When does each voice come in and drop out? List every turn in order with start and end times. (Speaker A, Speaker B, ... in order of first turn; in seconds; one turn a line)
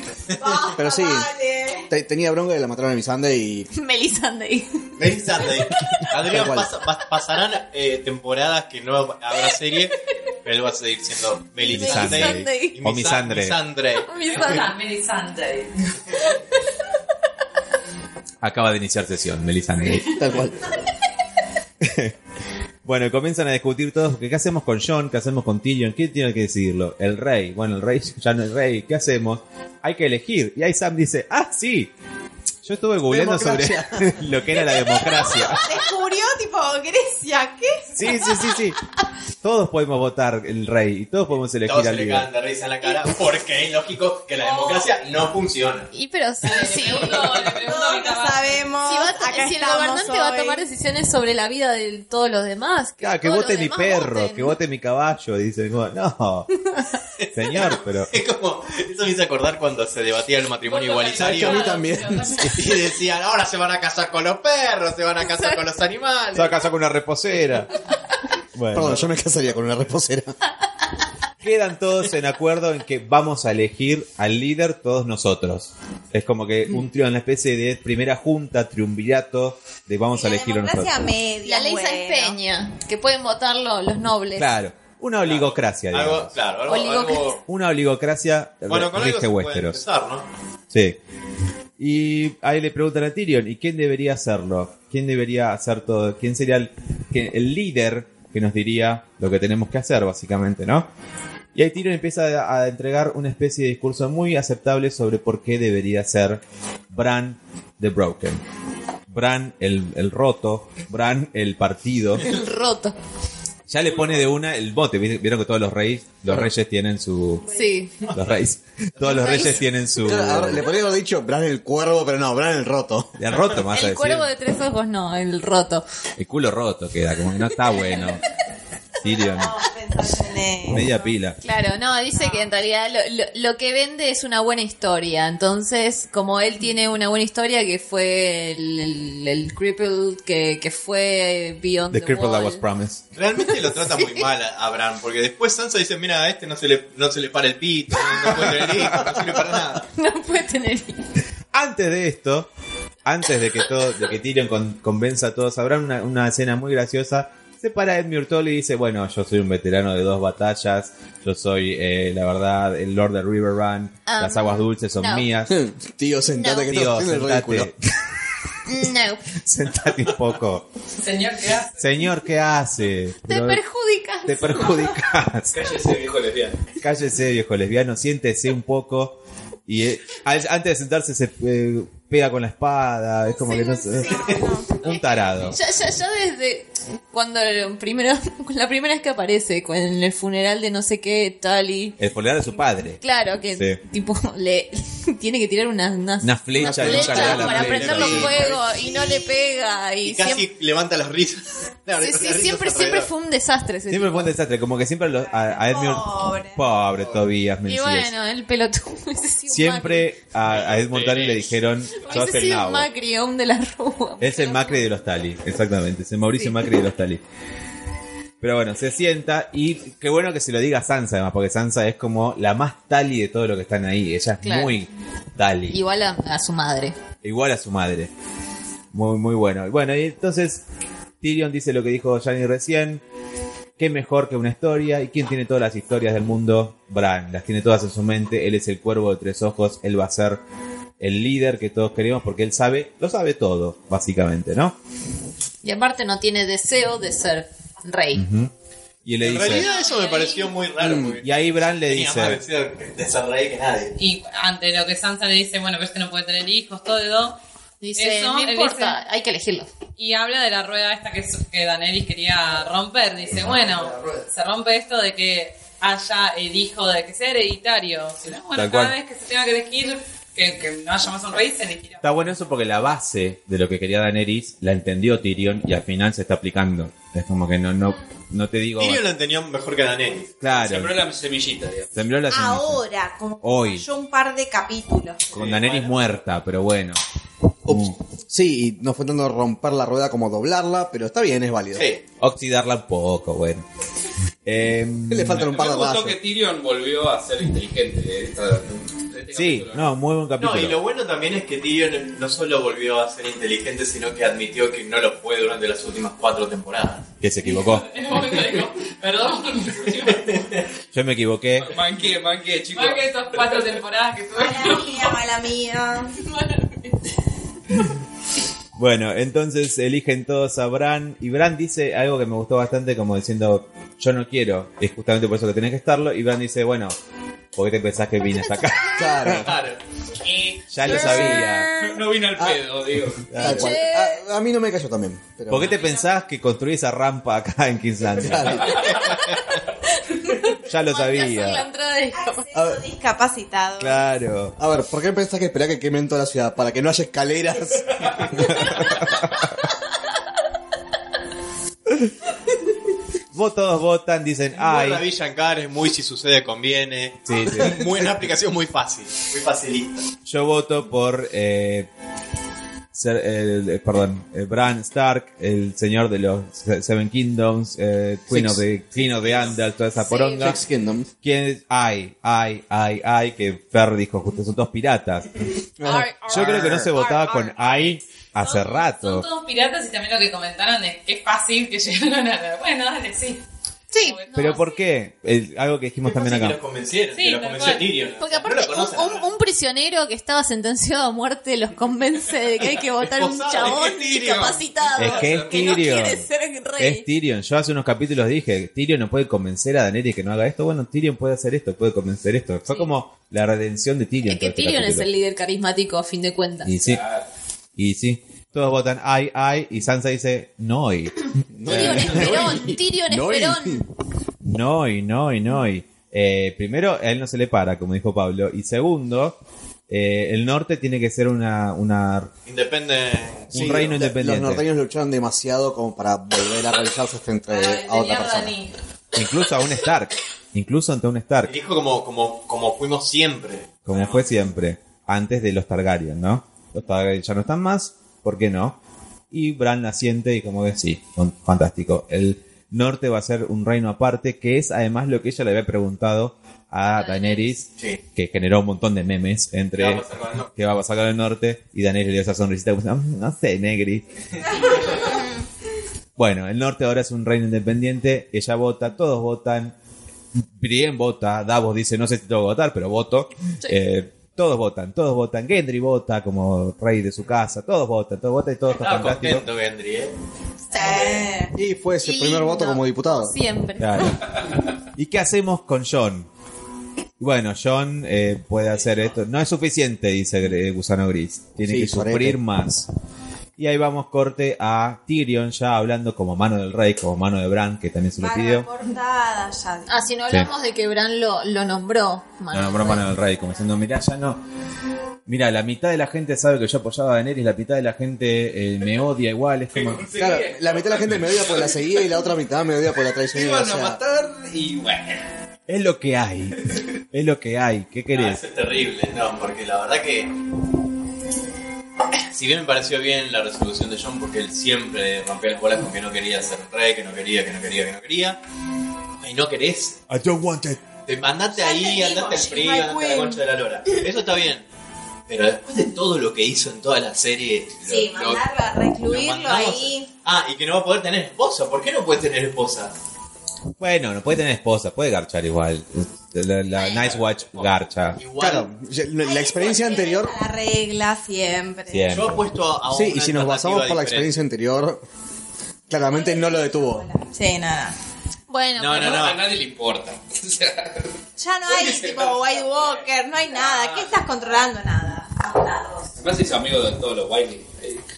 Speaker A: 0.3-0.7
Speaker B: 0.3-1.9
Speaker C: 0.7-1.3
Speaker C: 1.9-3.7
Speaker D: 3.7-4.8
Speaker A: 5.0-14.6
Speaker C: 6.1-6.7
Speaker D: 11.6-12.8
Speaker E: 11.7-13.6
Speaker D: 14.0-14.7
Speaker F: 14.2-15.7
Speaker E: 18.4-20.1
Speaker C: 19.9-20.8
Speaker E: 21.8-22.1
Speaker E: 22.8-31.9
Speaker E: 32.6-35.7
Speaker C: 33.1-34.3
Speaker B: 34.8-37.9
Speaker E: 38.0-38.8
Speaker E: 39.4-42.3
Speaker A: 41.6-45.9
Speaker F: 44.4-44.9
Speaker D: 45.9-47.5
Speaker F: 46.4-48.6
Speaker B: 47.6-50.6
Speaker D: 48.8-54.5
Speaker E: 53.0-56.5
Speaker A: 57.2-61.8
Speaker E: 57.3-58.1
Speaker F: 60.6-62.7
Speaker C: 61.1-62.6
Speaker A: 62.4-66.7
Speaker E: 66.3-67.7
Speaker E: 68.5-69.1
Speaker C: 68.7-70.3
Speaker E: 71.4-81.0
Speaker B: 80.1-82.4
Speaker D: 81.4-84.5
Speaker E: 84.3-86.3
Speaker A: 85.2-87.4
Speaker D: 86.7-87.3
Speaker E: 87.5-89.8
Speaker A: 88.7-90.2
Speaker E: 90.7-91.0
Speaker E: 91.8-100.9
Speaker E: 101.5-108.4
Speaker E: 109.1-112.2
Speaker D: 112.2-113.0
Speaker E: 113.7-117.5
Speaker D: 117.5-118.0
Speaker A: 118.1-118.4
Speaker E: 118.1-120.6
Speaker D: 119.0-119.6
Speaker A: 119.0-119.5
Speaker C: 120.0-123.2
Speaker E: 123.2-124.3
Speaker D: 123.7-125.8
Speaker E: 126.2-128.2
Speaker E: 129.0-129.6
Speaker B: 129.0-131.1
Speaker E: 130.7-131.4
Speaker D: 131.4-142.6
Speaker B: 132.1-132.5
Speaker E: 141.9-143.1
Speaker A: 143.1-149.8
Speaker D: 143.8-144.3
Speaker E: 148.4-149.1
Speaker D: 149.9-151.1
Speaker E: 151.5-152.5
Speaker E: 153.0-165.5
Speaker D: 164.1-165.3
Speaker C: 165.5-167.7
Speaker D: 166.3-166.7
Speaker E: 166.6-167.7
Speaker D: 168.7-169.2
Speaker E: 169.4-170.7
Speaker F: 171.0-171.9
Speaker E: 171.8-173.6
Speaker D: 173.3-174.8
Speaker E: 174.2-175.6
Speaker G: 175.5-176.6
Speaker E: 176.8-185.6
Speaker D: 183.5-184.2
Speaker B: 183.5-184.7
Speaker D: 184.8-192.0
Speaker E: 192.0-193.0
Speaker D: 192.9-200.5
Speaker E: 193.5-193.8
Speaker E: 196.2-198.4
Speaker C: 196.6-198.6
Speaker A: 196.8-198.5
Speaker B: 198.7-199.7
Speaker A: 200.0-203.1
Speaker D: 202.0-204.3
Speaker E: 203.9-208.1
Speaker B: 205.3-206.7
Speaker A: 206.9-207.2
Speaker D: 207.7-210.1
Speaker E: 209.5-212.9
Speaker A: 210.5-211.5
Speaker D: 212.0-214.9
Speaker E: 214.2-217.2
Speaker E: 218.4-225.8
Speaker D: 224.4-224.8
Speaker D: 225.7-226.9
Speaker E: 227.2-228.1
Speaker E: 228.9-230.6
Speaker E: 231.2-233.0
Speaker E: 233.8-240.4
Speaker E: 241.0-244.8
Speaker D: 245.6-248.2
Speaker E: 248.1-248.5
Speaker E: 249.0-249.7
Speaker A: 249.2-253.9
Speaker D: 249.4-250.5
Speaker C: 250.8-251.2
Speaker E: 251.2-252.4
Speaker F: 254.0-257.4
Speaker D: 257.8-259.7
Speaker F: 257.9-259.0
Speaker F: 260.0-272.1
Speaker E: 263.3-263.6
Speaker C: 263.8-264.2
Speaker E: 268.5-269.0
Speaker E: 272.0-279.0
Speaker A: 278.8-280.4
Speaker E: 280.4-280.9
Speaker G: 280.5-281.9
Speaker E: 281.9-282.8
Speaker B: 282.3-285.3
Speaker E: 283.4-283.9
Speaker G: 285.3-286.1
Speaker E: 285.3-287.0
Speaker C: 287.6-291.9
Speaker E: 287.7-287.9
Speaker A: 291.7-292.0
Speaker E: 292.2-293.6
Speaker E: 294.4-295.5
Speaker C: 295.1-296.2
Speaker G: 295.3-299.9
Speaker E: 299.3-300.8
Speaker A: 300.4-307.1
Speaker E: 307.2-307.9
Speaker F: 307.4-310.4
Speaker A: 309.9-310.6
Speaker E: 310.9-311.7
Speaker G: 311.6-313.7
Speaker F: 312.7-315.2
Speaker B: 314.3-316.2
Speaker F: 316.2-317.1
Speaker E: 318.8-326.9
Speaker E: 327.5-329.5
Speaker C: 328.9-329.6
Speaker A: 329.3-329.8
Speaker E: 330.7-331.7
Speaker C: 330.8-331.5
Speaker D: 330.8-332.0
Speaker G: 331.2-333.3
Speaker C: 332.3-332.6
Speaker E: 333.3-333.8
Speaker C: 333.3-335.7
Speaker D: 333.4-334.2
Speaker E: 335.5-338.9
Speaker F: 335.6-336.1
Speaker C: 338.2-338.8
Speaker A: 338.7-339.5
Speaker D: 340.0-342.5
Speaker E: 340.6-341.6
Speaker B: 342.1-344.1
Speaker C: 342.5-342.8
Speaker E: 343.8-344.6
Speaker C: 344.6-349.1
Speaker E: 348.4-348.9
Speaker E: 353.3-355.0
Speaker A: 354.6-360.0
Speaker C: 357.3-358.0
Speaker E: 357.4-357.8
Speaker E: 360.2-361.9
Speaker E: 362.9-370.6
Speaker C: 368.3-368.6
Speaker A: 369.0-369.6
Speaker D: 369.9-370.6
Speaker C: 370.4-371.1
Speaker E: 371.2-375.3
Speaker C: 375.8-376.9
Speaker D: 375.8-377.8
Speaker E: 375.9-379.2
Speaker F: 378.4-383.4
Speaker D: 383.9-384.6
Speaker F: 383.9-384.7
Speaker E: 384.3-386.6
Speaker A: 386.0-389.3
Speaker F: 387.1-387.9
Speaker D: 388.2-397.0
Speaker A: 393.0-394.5
Speaker G: 394.2-395.8
Speaker E: 395.0-396.2
Speaker E: 396.8-405.1
Speaker D: 404.2-406.7
Speaker E: 406.6-407.0
Speaker G: 406.8-407.2
Speaker E: 407.8-412.4
Speaker C: 411.5-413.8
Speaker D: 411.7-413.8
Speaker E: 414.4-419.4
Speaker E: 419.9-422.3
Speaker A: 422.4-423.8
Speaker E: 423.5-424.6
Speaker C: 423.5-428.5
Speaker F: 427.5-428.7
Speaker E: 429.1-431.5
Speaker A: 431.4-434.2
Speaker E: 433.9-438.8
Speaker E: 439.3-454.1
Speaker D: 446.9-447.5
Speaker A: 449.8-450.5
Speaker A: 454.5-455.1
Speaker D: 455.0-455.3
Speaker E: 456.2-459.7
Speaker E: 460.6-469.4
Speaker A: 468.7-470.1
Speaker B: 470.7-471.5
Speaker D: 470.7-471.2
Speaker C: 471.5-473.3
Speaker D: 472.0-474.1
Speaker E: 473.8-474.3
Speaker E: 474.9-476.3
Speaker E: 477.2-482.9
Speaker C: 481.6-482.4
Speaker E: 483.6-488.7
Speaker B: 488.2-489.9
Speaker D: 489.9-493.1
Speaker E: 492.5-494.4
Speaker E: 495.3-500.1
Speaker G: 499.7-502.2
Speaker C: 500.1-504.0
Speaker G: 503.3-505.2
Speaker E: 505.7-508.4
Speaker A: 508.1-510.3
Speaker A: 512.3-518.4
Speaker A: 519.2-520.0
Speaker E: 520.1-520.8
Speaker A: 521.0-524.6
Speaker B: 521.5-523.4
Speaker A: 525.3-528.4
Speaker B: 527.8-530.1
Speaker A: 529.0-532.9
Speaker E: 533.8-538.2
Speaker D: 536.7-537.0
Speaker G: 536.9-537.7
Speaker A: 538.1-538.7
Speaker C: 538.3-540.3
Speaker B: 539.2-542.1
Speaker E: 541.9-542.4
Speaker A: 542.1-544.4
Speaker C: 542.9-545.0
Speaker C: 545.9-547.1
Speaker B: 546.0-547.9
Speaker D: 548.5-549.3
Speaker A: 548.8-549.4
Speaker G: 548.9-551.1
Speaker B: 551.4-556.1
Speaker G: 551.6-554.6
Speaker G: 556.1-558.0